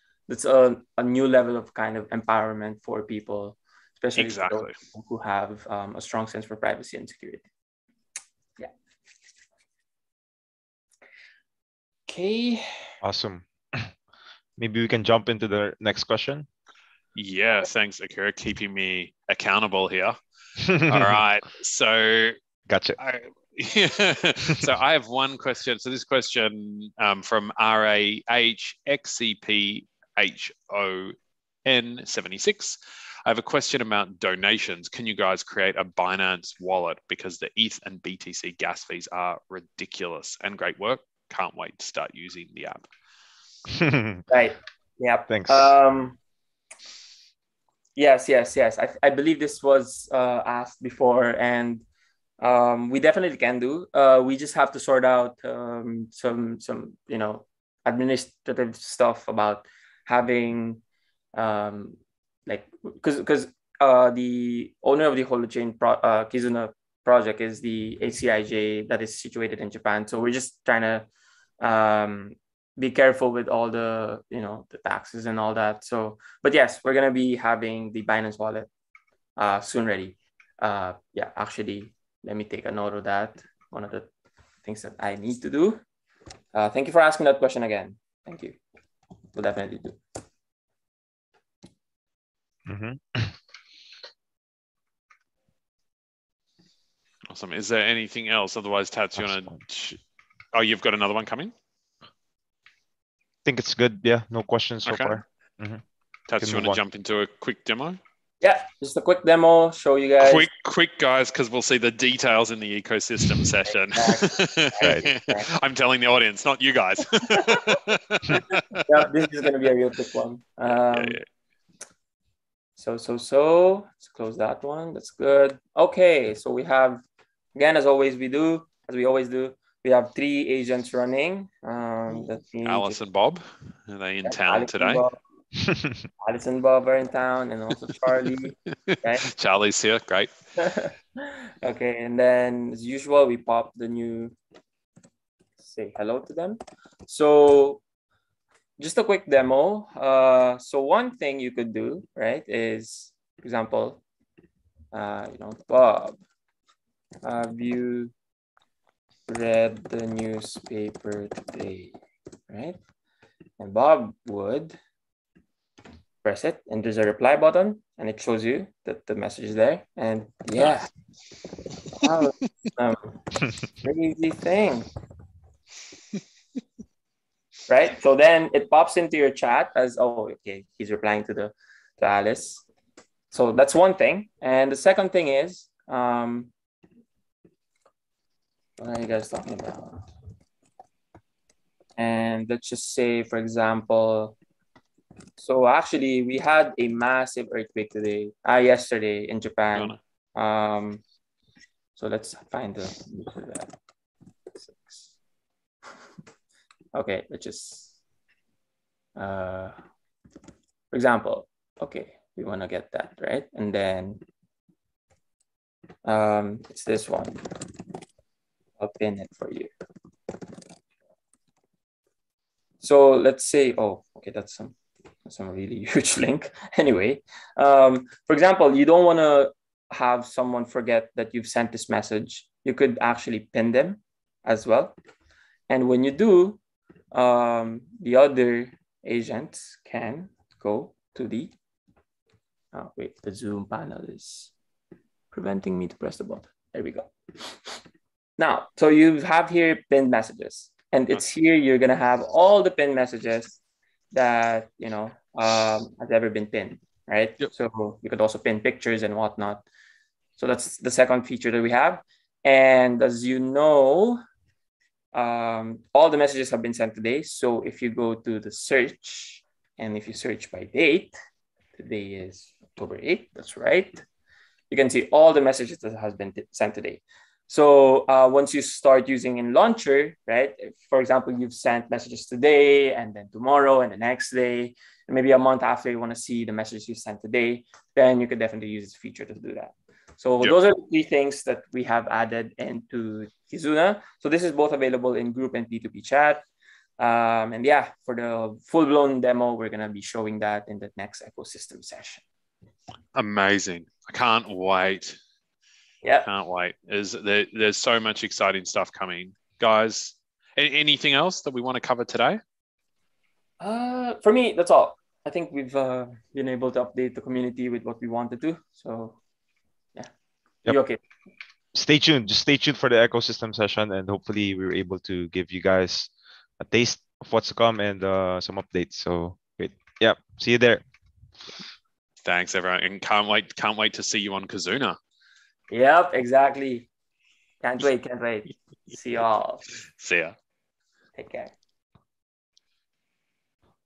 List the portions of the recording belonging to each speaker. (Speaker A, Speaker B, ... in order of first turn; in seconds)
Speaker A: 0.3-7.5, 12.1-12.9, 44.3-46.2, 48.0-51.8, 52.4-60.8, 61.3-71.1, 71.6-78.7, 79.4-84.1, 84.6-85.8, 86.5-88.6, 89.3-90.0, 108.4-110.5, 113.9-115.5, 117.3-117.7, 118.3-121.2, 122.8-127.0, 127.5-133.0, 134.2-135.2, 136.2-139.2, 140.6-144.3, 145.6-147.8, 148.8-154.0, 154.9-156.2, 157.2-158.1, 159.3-161.9, 162.5-162.8, 163.6-164.8, 166.2-170.9, 171.8-173.2, 173.7-174.9, 177.7-182.6, 183.3-186.5, 188.8-190.1, 192.0-194.4, 195.4-201.0, 201.9-203.7, 204.6-205.1, 206.9-207.9, 209.2-209.7, 210.9-214.2, 216.0-217.6, 218.8-219.7, 222.8-234.9, 235.7-236.6, 237.1-241.5, 242.7-244.5, 245.3-247.7, 248.4-253.6, 254.1-259.6, 260.4-264.2, 265.1-271.1, 271.8-274.0, 274.7-296.4, 297.0-302.2, 313.6-319.2, 320.6-321.0, 335.7-336.9, 337.6-339.6, 341.1-341.5
Speaker B: 4.2-4.7, 17.1-20.1, 20.8-22.4, 23.0-42.9, 97.3-100.0, 100.5-101.5, 104.8-105.2, 106.3-108.0, 110.2-118.8, 120.8-121.2, 132.2-135.0, 138.9-140.3, 303.1-305.2, 306.2-312.4, 332.2-335.0, 340.0-340.3
Speaker C: 13.0-13.9, 14.6-16.5, 20.6-21.2, 22.7-23.0, 43.7-44.2, 45.3-45.7, 92.7-93.3, 99.2-99.4, 103.4-105.8, 106.4-106.8, 135.6-136.0, 321.7-330.8